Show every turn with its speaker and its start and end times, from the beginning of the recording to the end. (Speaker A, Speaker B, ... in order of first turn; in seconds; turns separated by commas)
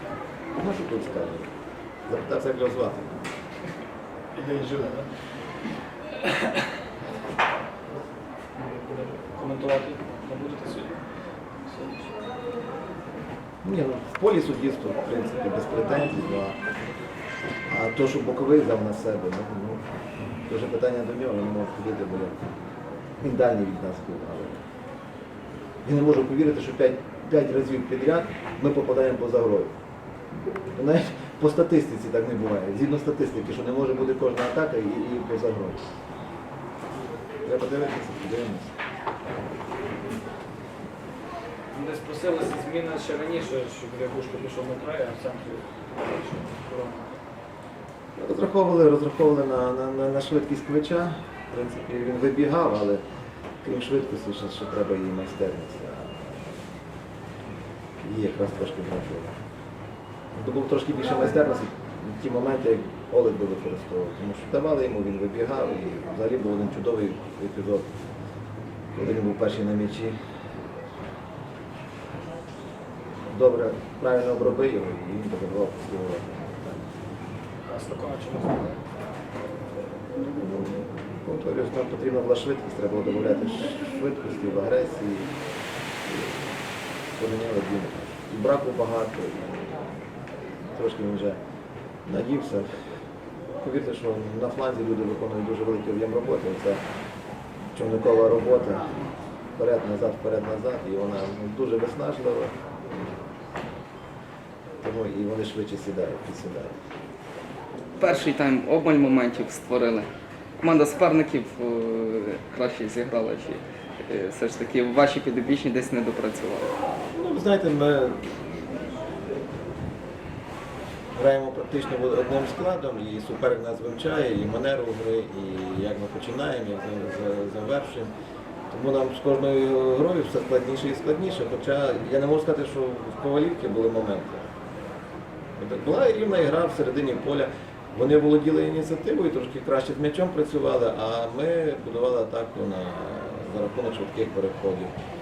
Speaker A: 0.5-1.5, Speaker A: 2.0-3.2, Speaker B: 4.3-5.1, Speaker B: 8.6-11.0, Speaker B: 11.5-12.1, Speaker A: 13.6-16.6, Speaker A: 17.7-19.8, Speaker A: 20.4-22.4, Speaker A: 23.2-24.6, Speaker A: 25.8-29.7, Speaker A: 30.7-35.9, Speaker A: 37.4-38.7, Speaker B: 41.7-47.1, Speaker A: 48.1-53.0, Speaker A: 53.6-56.6, Speaker A: 58.0-59.3, Speaker A: 60.3-67.9, Speaker A: 68.9-70.2, Speaker A: 73.3-76.8, Speaker B: 77.6-78.8, Speaker A: 80.2-85.4, Speaker A: 86.0-86.5, Speaker A: 87.2-90.0, Speaker A: 90.7-91.4, Speaker A: 92.0-92.7, Speaker A: 93.6-96.8, Speaker A: 97.7-98.9, Speaker A: 99.5-102.5, Speaker A: 104.8-106.7, Speaker C: 108.0-110.1, Speaker C: 110.6-116.7, Speaker A: 117.1-118.9, Speaker A: 121.1-128.1, Speaker A: 128.7-134.5, Speaker A: 135.6-144.9